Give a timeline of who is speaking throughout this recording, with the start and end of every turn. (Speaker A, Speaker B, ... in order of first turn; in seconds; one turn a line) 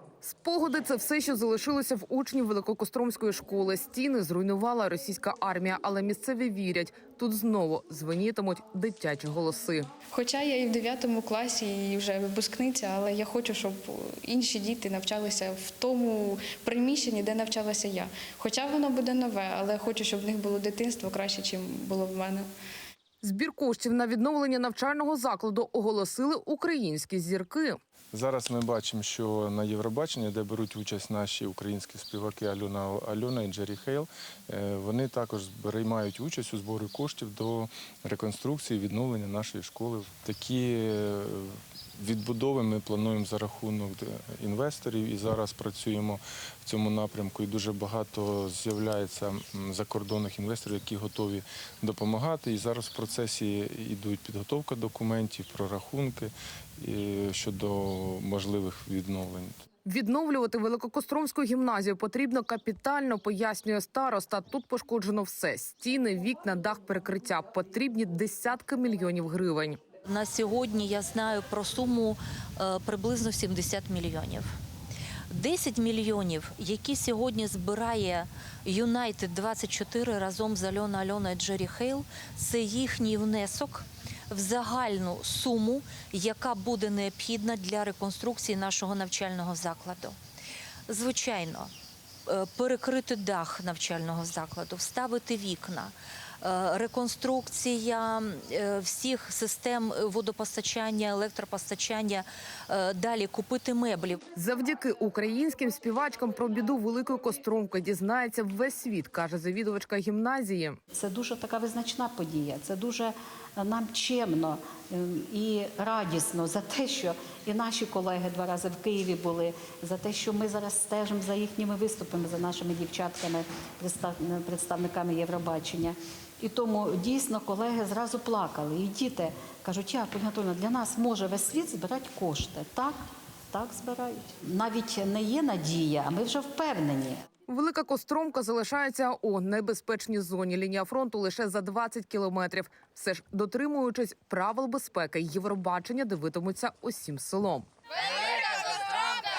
Speaker A: 0.2-9.9
Speaker B: 10.1-22.5
Speaker A: 23.2-27.8
Speaker C: 28.1-59.5
Speaker A: 59.8-69.8
Speaker D: 70.0-74.5
Speaker D: 75.3-90.2
Speaker D: 90.9-91.7
Speaker D: 92.3-104.2
Speaker A: 104.3-110.8
Speaker E: 110.9-137.2
Speaker A: 137.5-147.7